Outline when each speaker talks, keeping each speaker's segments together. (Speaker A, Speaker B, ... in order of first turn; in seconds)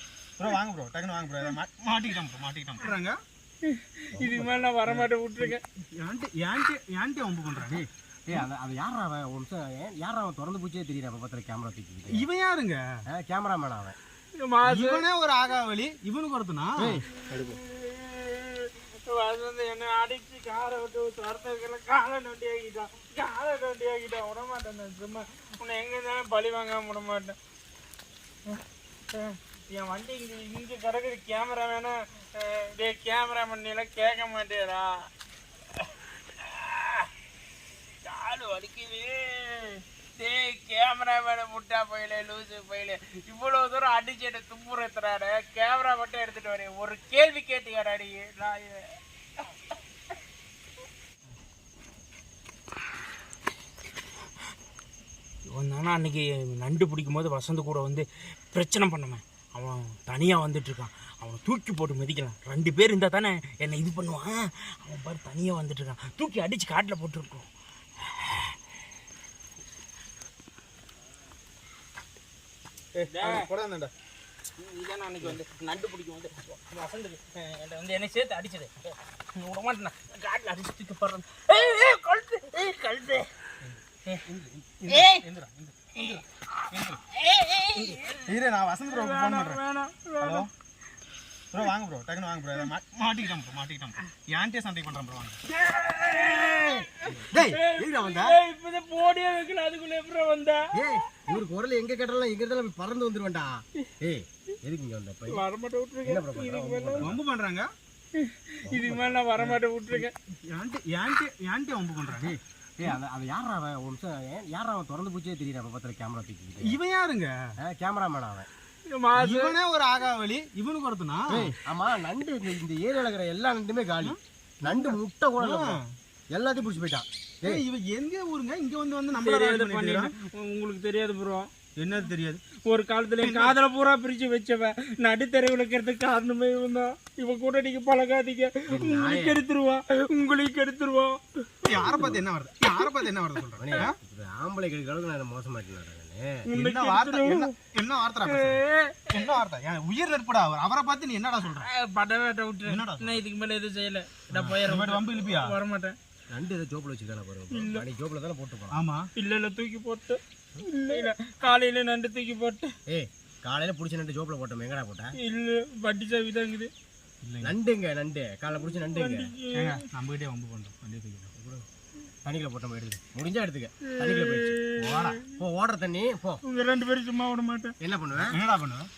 Speaker A: 0.4-3.2, 6.0-7.8, 12.1-12.8, 14.7-17.0, 72.9-73.9, 83.6-86.1, 86.7-87.0, 88.2-89.6, 90.2-90.5, 91.5-95.4, 97.3-98.4, 107.0-107.7, 110.5-112.4, 116.6-117.3, 119.2-121.5, 124.0-125.9, 127.4-130.1, 131.8-132.4, 133.2-133.6, 141.6-144.0, 146.5-151.7, 152.7-153.2, 154.4-155.6, 158.7-159.1, 167.2-167.6, 169.5-171.3, 178.2-178.9
Speaker B: 3.6-5.6, 14.4-15.0, 17.3-27.4, 29.1-35.1, 36.4-37.1, 38.0-48.9, 55.5-67.5, 68.1-68.5, 73.1-73.5, 74.6-83.3, 84.8-85.2, 86.0-86.2, 86.9-88.2, 88.9-90.5, 95.5-100.7, 105.3-107.1, 108.2-110.1, 118.9-119.5, 129.1-131.5, 132.6-142.0, 146.4-147.5, 148.2-149.3, 151.4-155.9, 157.5-157.8, 159.2-162.7, 165.2-166.7, 168.8-169.8, 173.9-175.3, 176.4-177.7
Speaker C: 4.1-5.1, 7.6-12.2, 13.1-14.0, 16.8-17.6, 96.5-97.2, 100.7-105.4, 106.0-107.2, 108.6-109.2, 112.1-116.8, 117.6-118.5, 121.3-125.8, 126.3-127.6, 138.7-139.4, 141.9-142.2, 143.6-146.4, 156.3-158.8, 160.6-161.0, 162.9-165.1, 167.4-169.3, 171.4-171.6, 172.2-176.4, 177.8-178.4